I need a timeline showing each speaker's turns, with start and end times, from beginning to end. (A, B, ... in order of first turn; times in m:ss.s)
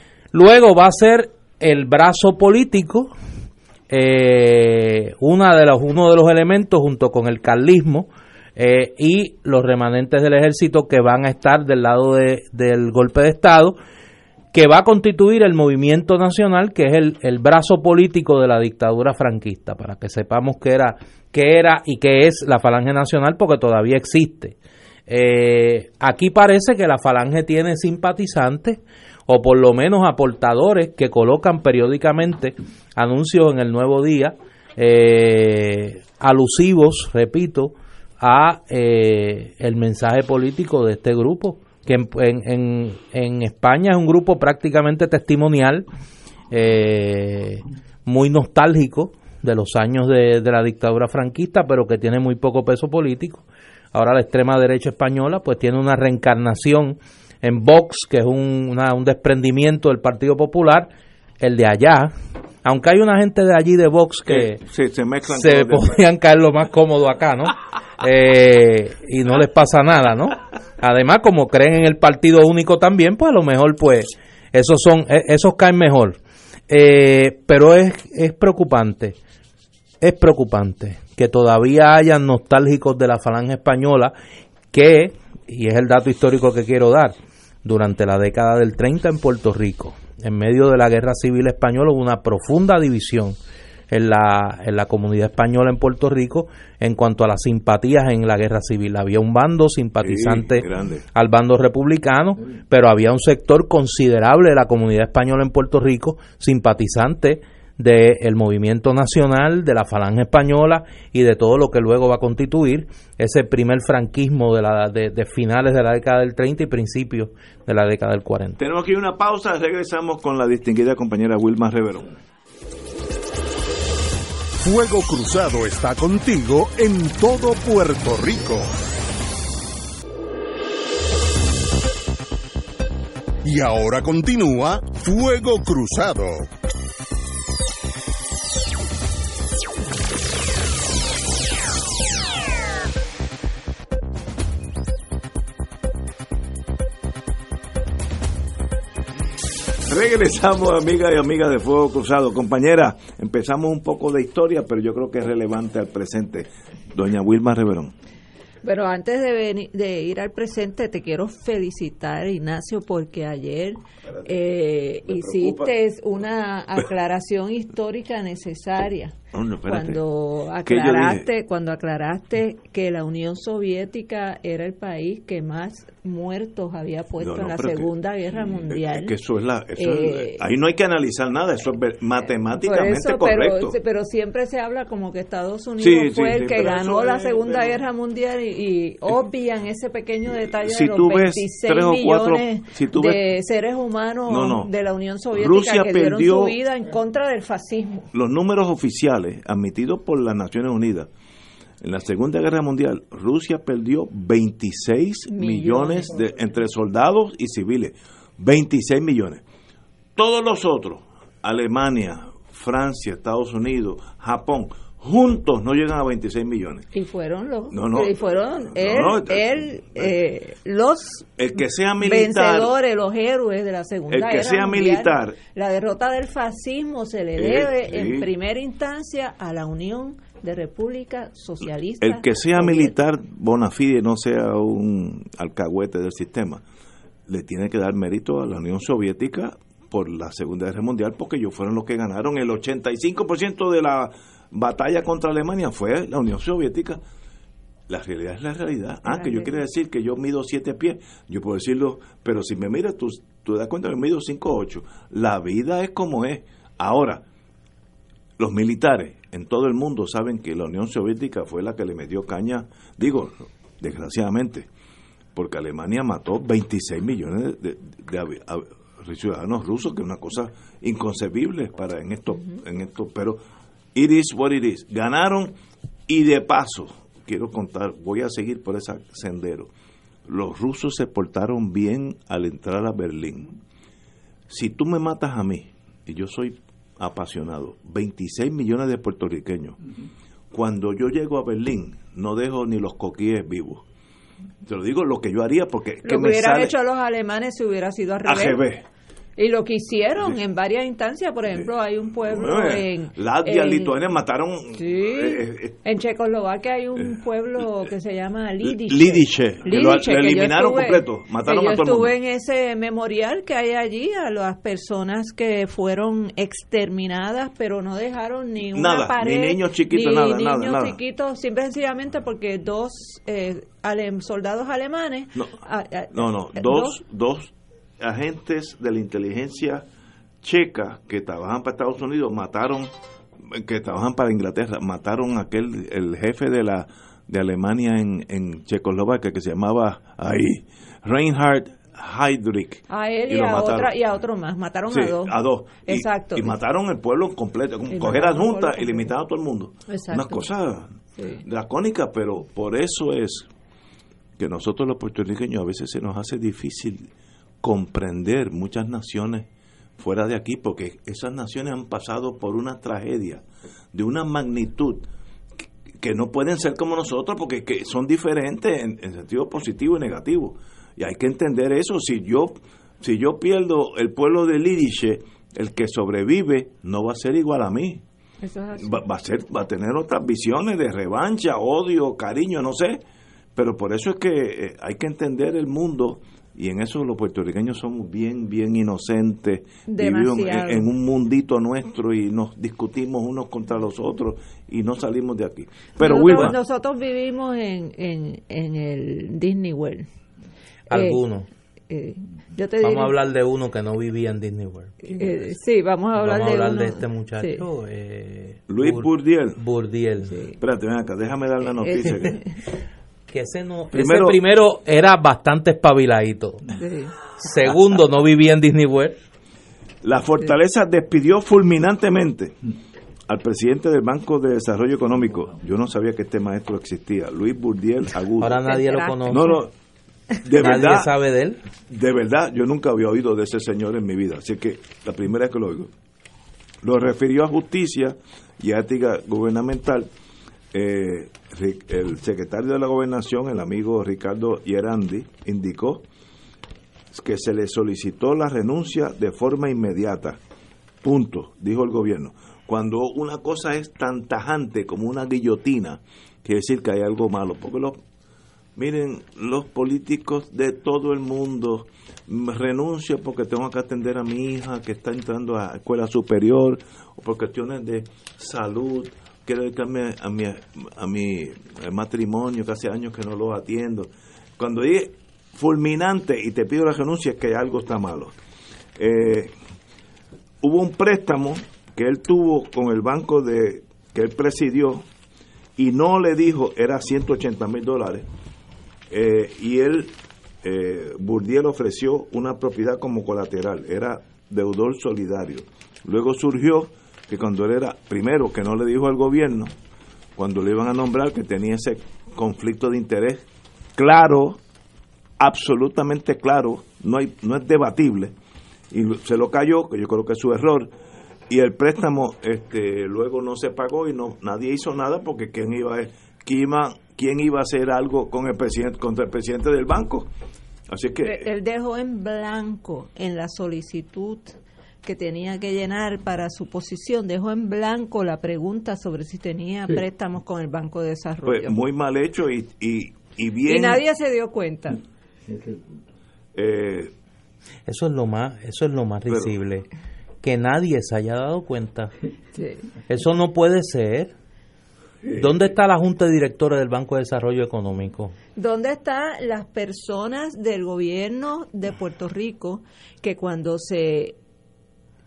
0:00.3-0:03.1 A
0:03.9-0:13.8 A
0:14.5-0:24.6 A
0:25.1-0:45.9 A
0:46.5-0:53.4 A
0:53.9-1:00.9 A
1:01.4-1:02.1 A
1:02.6-1:04.6 A
1:04.3-1:06.0 B
1:05.3-1:16.2 A
1:16.7-1:19.2 A
1:20.0-1:24.1 A
1:24.7-1:27.1 A
1:27.6-1:33.4 A
1:33.9-1:58.6 A
1:40.0-1:41.0 B
1:58.6-2:02.1 B
2:04.6-2:08.8 C
2:13.4-2:16.5 C
2:29.9-2:37.9 B
2:38.6-2:49.2 D
2:44.1-2:44.4 B
2:45.1-2:45.7 B
2:49.3-2:50.0 B
2:49.7-2:59.1 D
2:50.6-2:51.2 B
2:57.2-2:57.9 B
2:58.6-3:03.8 B
2:59.8-3:00.4 D
3:02.5-3:18.1 D
3:05.8-3:07.8 B
3:10.6-3:13.2 B
3:14.3-3:14.7 B
3:15.3-3:16.6 B
3:18.1-3:21.1 B
3:21.8-3:29.4 B
3:25.3-3:26.2 D
3:30.2-3:36.9 B
3:36.9-3:41.4 D
3:37.7-3:40.1 B
3:41.4-3:42.7 B
3:42.0-3:52.9 D
3:44.1-3:45.4 B
3:47.4-3:48.3 B
3:52.0-3:56.6 B
3:57.3-4:07.0 B
4:07.9-4:17.2 B
4:09.1-4:09.5 D
4:18.4-4:24.7 B
4:25.3-4:33.4 B
4:33.9-4:35.5 B
4:36.1-4:39.7 B
4:40.3-4:43.6 B
4:44.5-4:49.8 B
4:50.5-4:53.8 B
4:54.6-4:56.7 B
4:56.0-4:58.6 D
4:58.2-4:58.8 B
4:59.4-5:04.0 D
5:02.2-5:05.8 B
5:04.7-5:27.0 D
5:08.6-5:12.1 B
5:18.7-5:21.0 B
5:26.1-5:29.8 B
5:30.4-5:32.9 B
5:33.5-5:43.9 B
5:42.9-5:46.6 D
5:44.9-5:53.5 B
5:47.9-5:49.1 D
5:49.9-5:50.5 D
5:51.2-5:51.4 D
5:54.4-5:57.1 B
5:57.6-6:05.1 B
6:05.6-6:18.0 B
6:18.4-6:19.0 D
6:18.8-6:23.0 B
6:23.6-6:36.6 B
6:29.9-6:30.9 D
6:36.0-6:40.1 D
6:40.9-6:41.2 D
6:40.9-6:41.5 A
6:41.9-6:43.1 D
6:42.8-6:45.4 A
6:45.0-6:47.6 D
6:46.2-6:50.4 A
6:48.7-6:49.6 B
6:50.6-6:52.4 B
6:53.3-6:56.7 A
6:53.9-6:54.4 B
6:56.8-6:57.1 D
6:57.4-6:59.2 A
7:00.0-7:02.6 B
7:03.3-7:08.7 B
7:08.4-7:09.6 A
7:08.7-7:09.2 D
7:09.3-7:09.7 B
7:10.4-7:11.1 B
7:10.5-7:11.6 A
7:11.9-7:15.9 B
7:16.8-7:20.1 B
7:20.7-7:26.0 B
7:27.1-7:30.4 B
7:31.0-7:38.0 B
7:38.8-7:58.3 B
7:59.0-7:59.5 B
8:00.6-8:05.0 B
8:05.8-8:08.2 B
8:09.1-8:19.7 B
8:20.4-8:23.4 B
8:24.0-8:24.6 B
8:25.4-8:28.3 B
8:28.9-8:30.9 B
8:31.5-8:40.3 B
8:40.9-8:41.4 B
8:41.2-8:51.8 D
8:51.4-8:54.0 B
8:53.6-8:55.0 D
8:56.5-8:57.1 B
8:57.8-8:59.8 A
8:59.3-8:59.5 B
9:00.4-9:02.1 A
9:02.6-9:02.8 D
9:03.1-9:04.3 A
9:05.2-9:05.5 B
9:05.3-9:08.3 A
9:08.6-9:14.4 D